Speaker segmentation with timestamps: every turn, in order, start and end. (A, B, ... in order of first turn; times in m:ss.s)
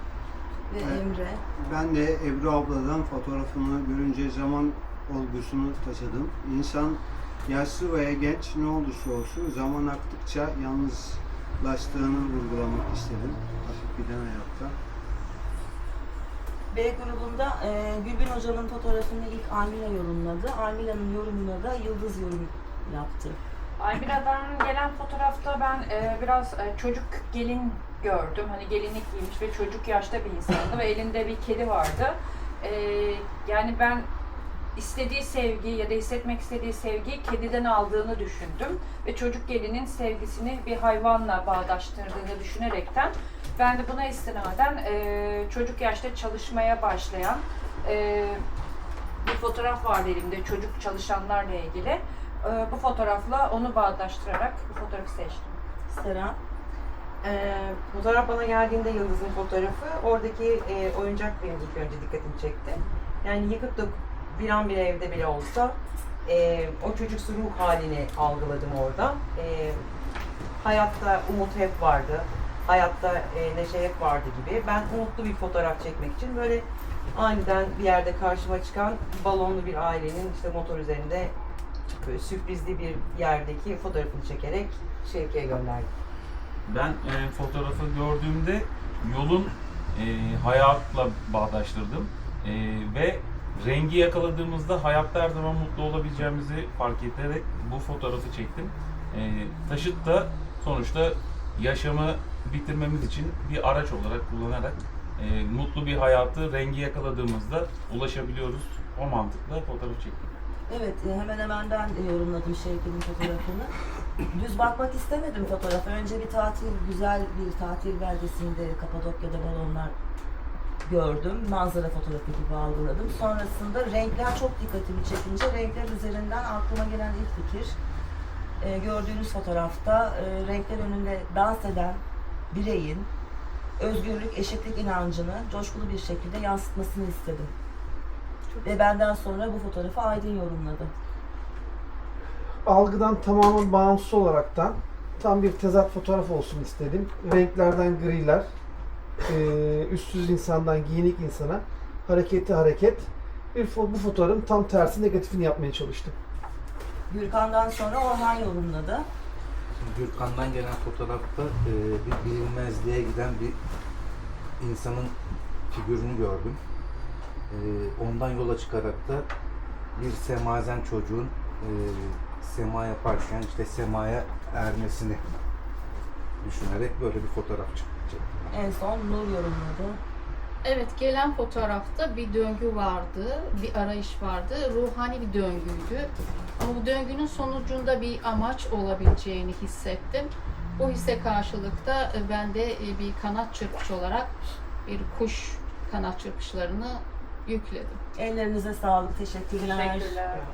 0:00.7-0:01.4 A
0:00.8-0:01.0 B
0:01.6-0:14.7 B
0:16.7-0:23.4 A
0:23.8-0:34.1 C
0:34.7-0:48.4 C
0:49.2-0:55.6 C
0:55.9-0:56.4 A
0:57.2-1:09.8 D
1:10.6-1:21.3 D
1:22.0-1:25.9 D
1:26.6-1:50.3 E
1:50.7-1:53.7 A
1:54.3-1:59.9 A
2:00.8-2:07.8 A
2:08.6-2:13.1 A
2:13.8-2:17.5 A
2:18.6-2:20.9 A
2:22.6-2:28.4 F
2:29.3-2:36.1 F
2:37.1-2:39.1 A
2:39.8-2:43.6 G
2:44.6-2:45.1 G
2:45.7-2:46.6 G
2:47.5-2:49.3 G
2:50.0-2:55.3 G
2:56.4-2:58.4 G
2:58.5-3:00.0 A
3:00.6-3:14.3 H
3:14.8-3:18.0 H
3:18.2-3:20.2 A
3:19.6-3:20.4 C